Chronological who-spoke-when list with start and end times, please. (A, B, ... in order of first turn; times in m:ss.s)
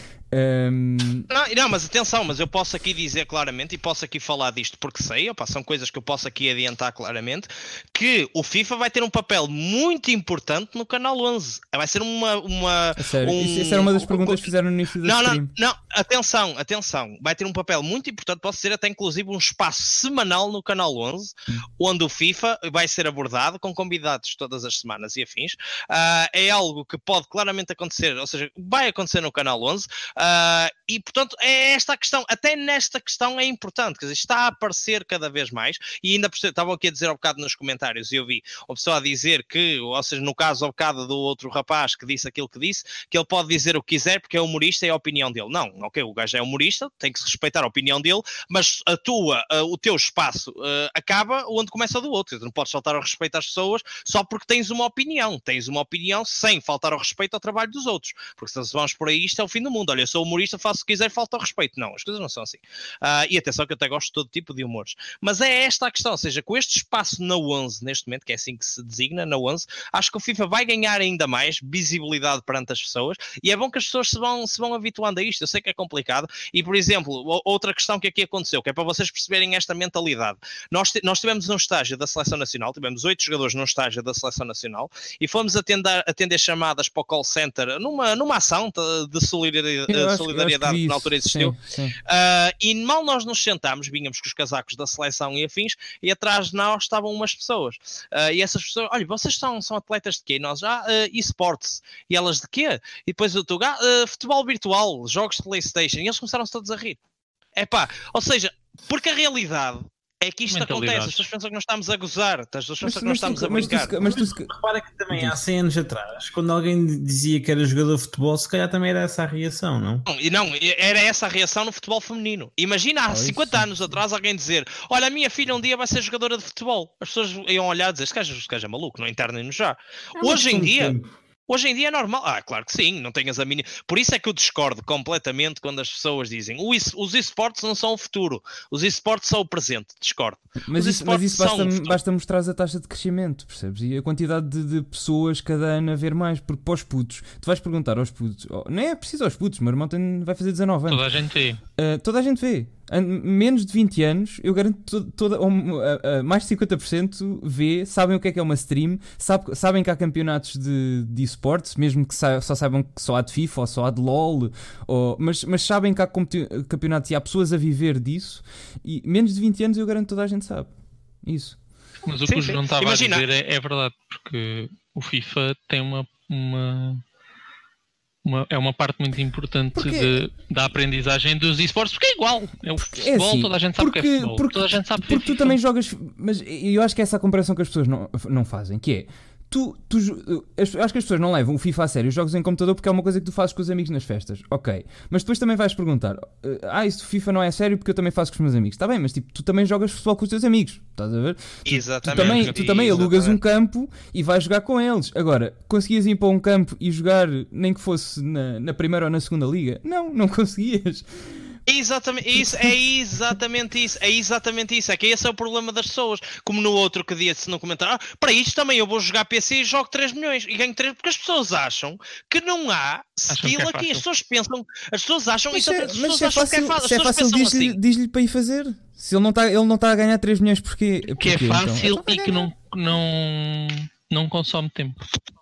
0:00.3-0:01.3 A
0:01.3-0:14.5 B
0:13.0-0:15.5 A
0:15.0-1:47.0 B
1:29.9-1:32.0 A
1:47.6-1:53.9 B
1:50.5-1:51.2 C
1:52.8-1:54.5 A
1:53.9-2:00.0 D
1:55.1-1:55.4 A
2:00.1-2:10.9 B
2:03.1-2:03.7 A
2:10.2-2:11.1 D
2:11.5-2:22.0 B
2:20.6-2:31.0 A
2:30.9-2:31.6 C
2:31.8-2:50.7 A
2:51.2-2:51.6 A
2:52.0-2:57.0 C
2:52.2-2:53.2 B
2:58.2-3:05.6 C
2:59.7-3:00.2 A
3:02.9-3:31.5 A
3:21.6-3:23.4 B
3:31.7-3:47.8 B
3:43.3-3:44.0 C
3:45.5-3:52.5 A
3:51.1-3:55.0 C